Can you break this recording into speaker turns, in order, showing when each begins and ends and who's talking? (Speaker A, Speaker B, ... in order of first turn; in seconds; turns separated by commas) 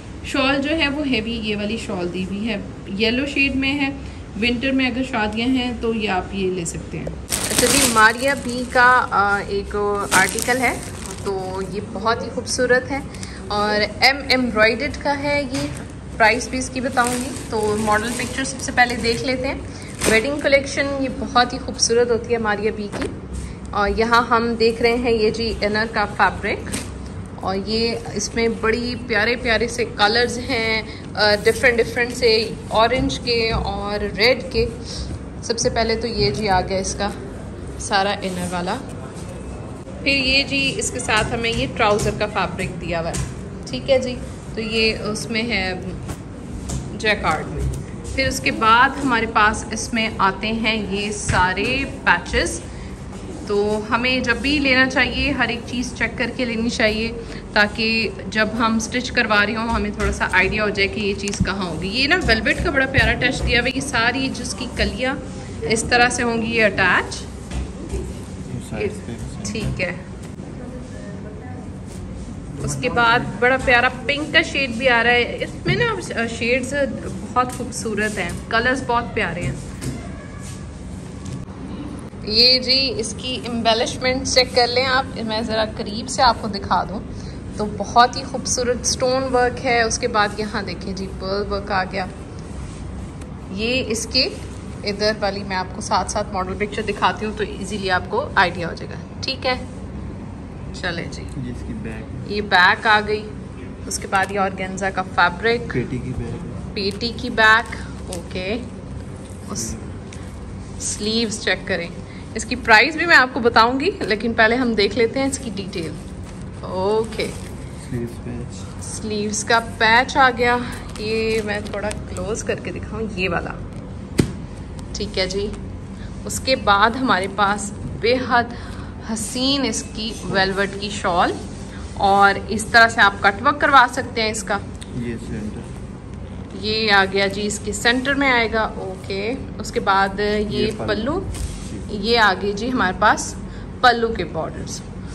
Speaker A: 0.2-23.1, Speaker A: 23.7-26.8, Speaker A: 27.4-34.8, Speaker A: 35.4-37.1, Speaker A: 37.8-38.8, Speaker A: 40.0-46.0, Speaker A: 46.9-52.6, Speaker A: 53.5-67.3, Speaker B: 68.5-69.7, Speaker A: 68.8-70.0, Speaker A: 72.6-79.6, Speaker A: 82.2-92.1, Speaker A: 93.5-99.7, Speaker A: 100.7-101.3, Speaker B: 101.3-102.3, Speaker A: 102.2-105.8, Speaker B: 105.7-106.7, Speaker A: 106.7-108.7, Speaker A: 109.5-109.8, Speaker B: 109.5-109.8, Speaker A: 110.8-116.0, Speaker A: 116.6-117.4, Speaker B: 117.8-118.7, Speaker A: 118.8-123.6, Speaker A: 124.9-125.6, Speaker A: 126.2-131.4, Speaker A: 132.0-134.6, Speaker B: 134.9-135.8, Speaker A: 136.5-141.3, Speaker B: 140.5-141.1, Speaker A: 141.9-144.8